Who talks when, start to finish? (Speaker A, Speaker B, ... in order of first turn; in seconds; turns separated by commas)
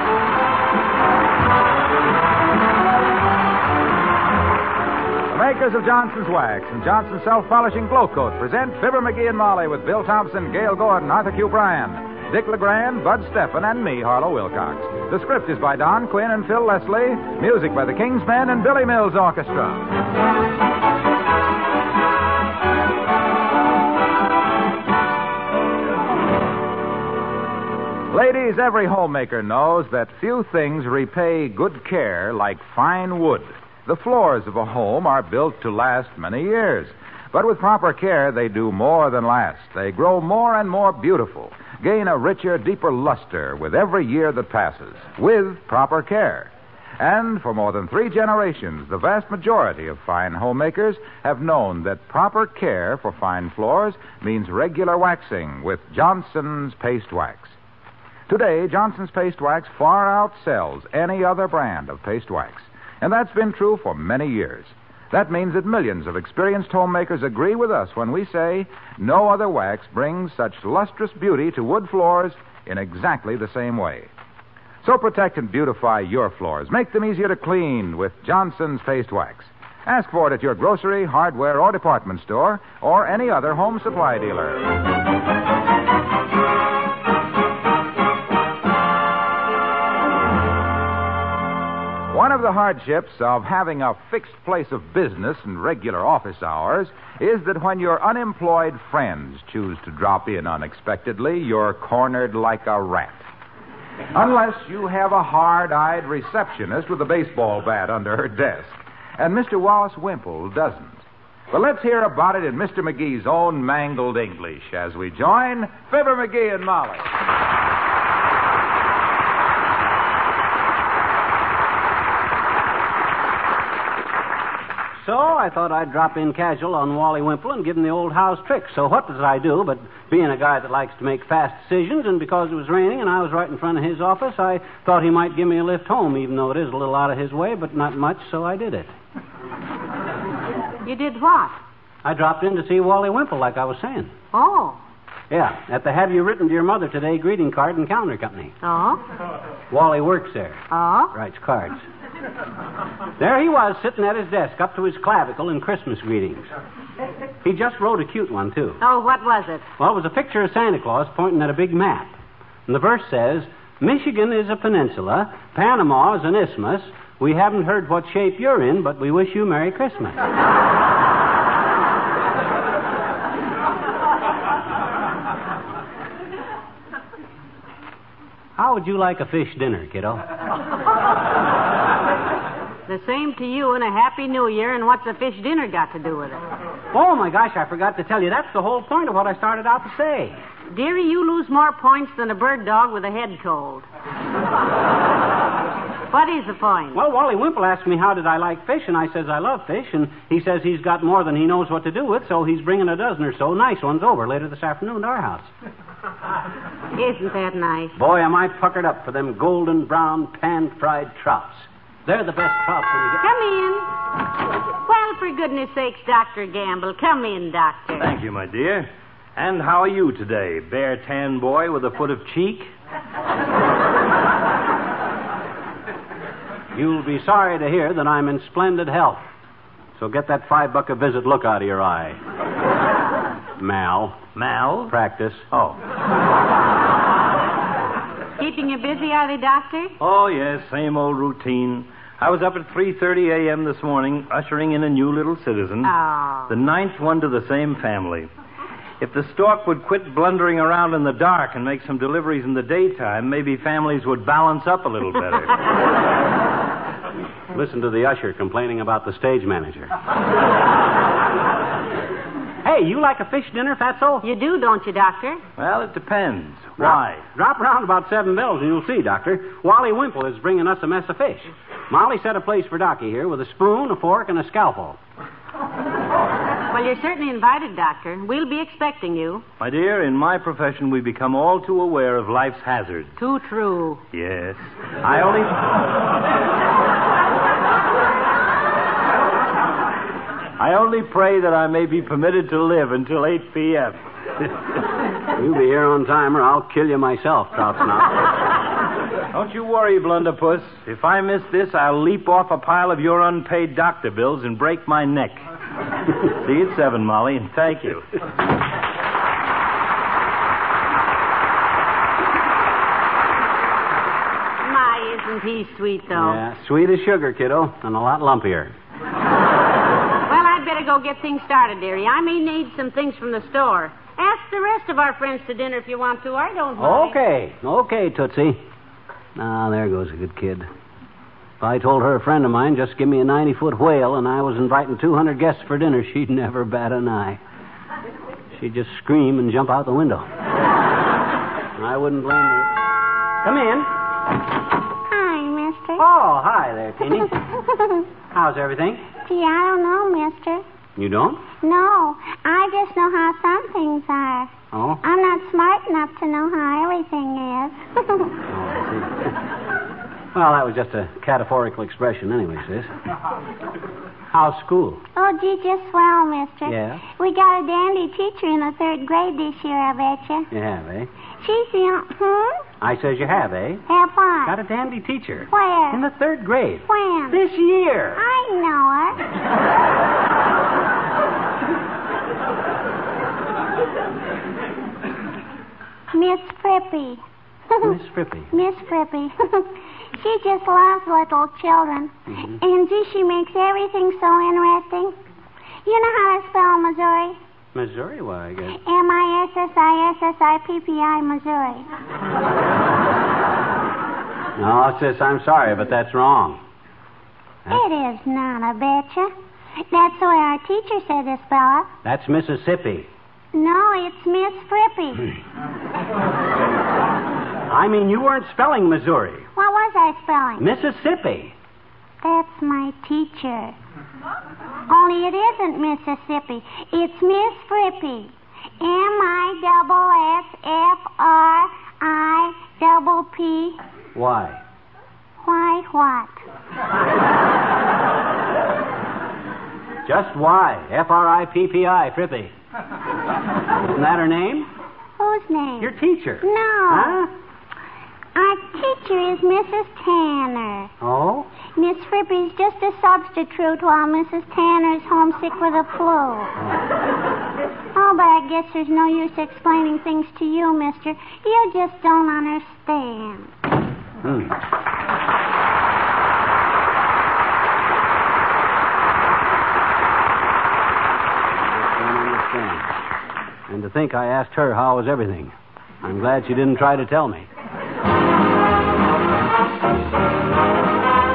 Speaker A: 5.3-19.9, Speaker A: 28.1-57.6, Speaker A: 58.3-74.1, Speaker A: 74.8-84.6, Speaker A: 92.1-103.3, Speaker A: 104.1-117.1, Speaker B: 125.0-138.9, Speaker C: 140.8-141.6, Speaker B: 142.0-144.1, Speaker C: 144.3-144.8, Speaker B: 145.3-148.5, Speaker C: 148.6-149.0, Speaker B: 149.7-150.6, Speaker C: 150.7-151.1, Speaker B: 151.1-151.8, Speaker B: 153.2-156.4, Speaker B: 157.4-158.8, Speaker C: 158.8-159.6, Speaker B: 159.8-162.1, Speaker B: 162.7-170.2, Speaker B: 178.6-180.2, Speaker C: 182.9-186.4, Speaker B: 186.9-190.3, Speaker C: 190.7-193.8, Speaker C: 196.1-197.0, Speaker B: 196.9-205.5, Speaker C: 206.9-207.9, Speaker B: 207.9-213.2, Speaker C: 213.2-213.9, Speaker C: 214.8-218.1, Speaker D: 218.0-222.7, Speaker B: 226.7-229.2, Speaker B: 230.0-232.2, Speaker B: 233.6-234.3, Speaker D: 234.3-234.9, Speaker B: 234.9-235.5, Speaker D: 235.5-235.8, Speaker C: 238.4-239.9, Speaker D: 240.0-245.9, Speaker C: 245.8-246.5, Speaker D: 246.5-248.3, Speaker D: 249.0-255.6, Speaker B: 257.5-259.9, Speaker B: 262.6-264.2, Speaker C: 264.2-265.4, Speaker D: 265.6-267.2, Speaker B: 266.8-275.0, Speaker C: 276.7-279.4, Speaker D: 279.6-283.2, Speaker C: 283.2-284.0, Speaker D: 284.1-285.6, Speaker D: 290.6-294.0, Speaker B: 295.3-298.2, Speaker D: 299.3-305.4, Speaker D: 306.2-308.1, Speaker C: 314.6-316.4, Speaker B: 316.1-318.7, Speaker C: 320.3-327.2, Speaker B: 326.8-328.6, Speaker B: 329.4-330.7, Speaker B: 331.6-337.4, Speaker B: 338.5-340.3, Speaker B: 341.8-342.7, Speaker B: 343.4-343.9, Speaker E: 345.1-346.0, Speaker B: 346.0-347.3, Speaker E: 347.1-348.1, Speaker B: 348.3-349.0, Speaker E: 349.2-350.6, Speaker B: 350.9-351.4, Speaker E: 351.6-354.5, Speaker B: 354.7-355.0, Speaker E: 355.0-358.3, Speaker B: 358.5-359.4, Speaker B: 360.3-362.9, Speaker B: 364.3-365.0, Speaker E: 365.1-370.4, Speaker B: 366.6-367.0, Speaker B: 370.5-371.1, Speaker E: 371.4-372.6, Speaker B: 372.8-373.8, Speaker E: 373.9-374.6, Speaker B: 374.4-378.2, Speaker E: 375.5-376.0, Speaker E: 376.9-377.4, Speaker E: 378.1-379.2, Speaker E: 386.1-388.0, Speaker B: 387.8-388.5, Speaker E: 388.5-395.1, Speaker B: 392.3-392.6, Speaker E: 395.8-397.4, Speaker B: 397.7-398.8, Speaker E: 398.7-401.9, Speaker B: 404.6-406.6, Speaker E: 407.7-409.3, Speaker E: 409.9-411.9, Speaker B: 412.0-413.1, Speaker E: 413.5-415.3, Speaker B: 417.7-419.5, Speaker E: 419.6-420.6, Speaker B: 420.6-421.5, Speaker E: 422.2-423.8, Speaker E: 424.9-433.8, Speaker B: 434.1-434.6, Speaker E: 435.4-436.4, Speaker B: 440.0-442.5, Speaker B: 443.8-444.7, Speaker E: 445.2-447.2, Speaker B: 445.8-447.3, Speaker E: 448.3-450.9, Speaker B: 451.0-451.5, Speaker E: 451.8-456.5, Speaker E: 457.9-463.5, Speaker B: 464.2-464.5, Speaker B: 471.7-472.9, Speaker B: 473.7-477.5